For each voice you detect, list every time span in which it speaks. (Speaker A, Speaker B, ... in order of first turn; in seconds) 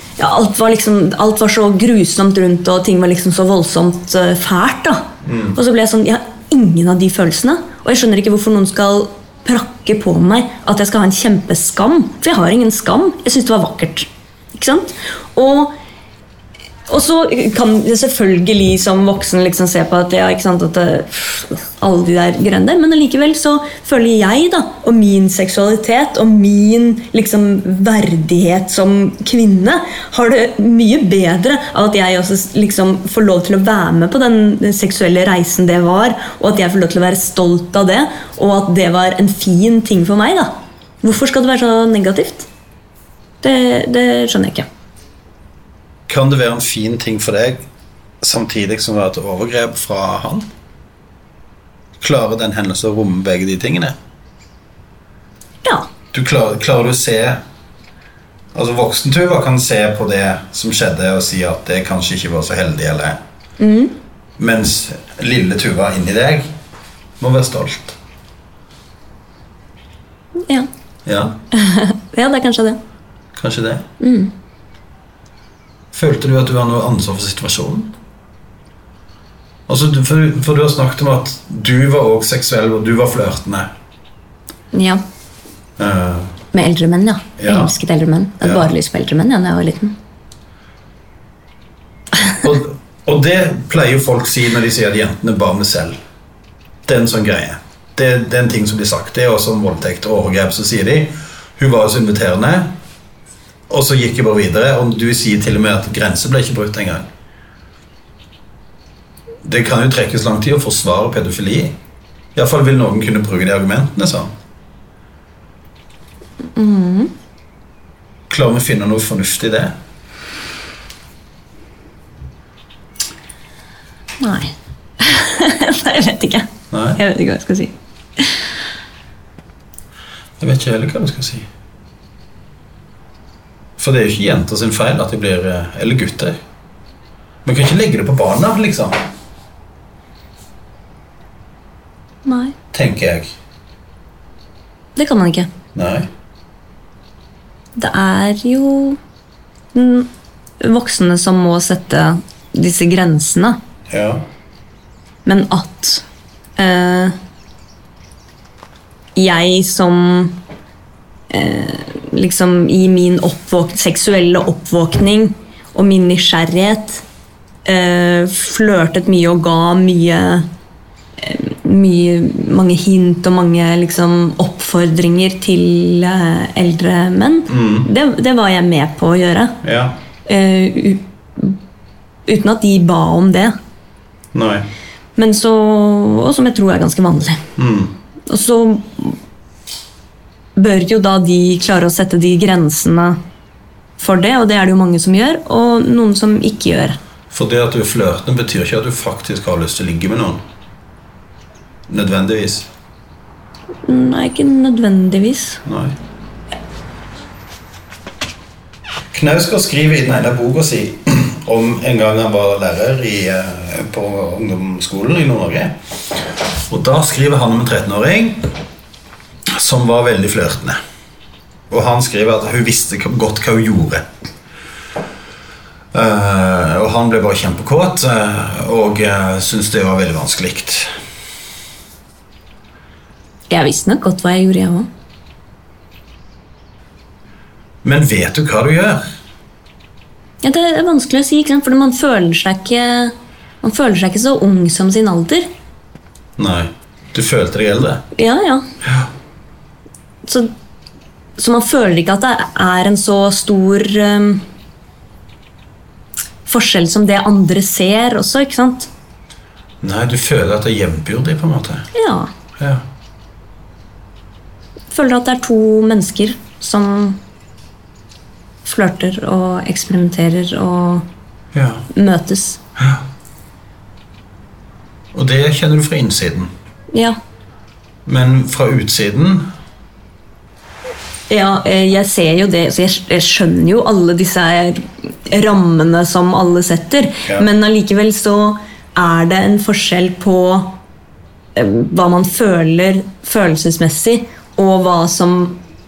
Speaker A: 0.2-15.8, 16.9-42.5, 43.4-44.6, 55.6-55.9, 63.6-64.0, 70.4-70.7, 71.5-72.8, 74.0-74.3, 84.7-85.0, 86.5-90.0, 116.5-117.1, 124.2-128.5, 142.2-142.6, 144.9-145.5, 147.8-149.0, 149.7-153.6, 155.2-156.0, 156.6-157.1, 159.2-160.4, 161.3-167.0, 167.6-170.5, 171.2-179.6, 180.2-181.6, 182.3-183.6, 185.2-187.4, 188.2-189.2, 190.6-193.2, 194.0-197.0, 203.8-205.6, 233.5-234.9, 240.4-245.5, 248.1-248.7, 250.2-250.5, 251.4-254.4, 256.4-258.9, 261.9-262.3, 264.9-267.2, 268.6-271.1, 271.9-272.6, 276.9-277.2, 281.3-290.8, 291.5-295.6
Speaker B: 5.2-5.6, 46.1-47.6, 48.2-50.5, 52.0-53.9, 56.1-57.4, 58.5-63.2, 64.4-66.5, 67.2-68.0, 71.0-71.3, 73.4-73.8, 75.9-77.9, 79.7-83.7, 85.8-86.3, 87.4-87.7, 88.4-88.7, 92.4-96.0, 96.9-102.7, 103.7-107.0, 109.4-111.7, 112.3-114.3, 118.3-119.7, 126.7-127.0, 130.4-131.4, 133.8-136.4, 137.4-139.0, 142.7-143.3, 145.7-146.1, 153.9-154.2, 177.5-177.9, 179.6-180.0, 184.3-184.7, 187.6-187.9, 197.3-200.4, 201.9-202.7, 205.7-205.9, 209.1-215.8, 216.7-218.5, 219.5-220.8, 221.7-224.0, 225.9-230.9, 237.8-239.0, 246.4-248.0, 248.8-249.1, 259.8-261.9, 262.6-262.9, 271.5-271.9, 272.8-273.0, 275.1-276.5, 278.1-279.5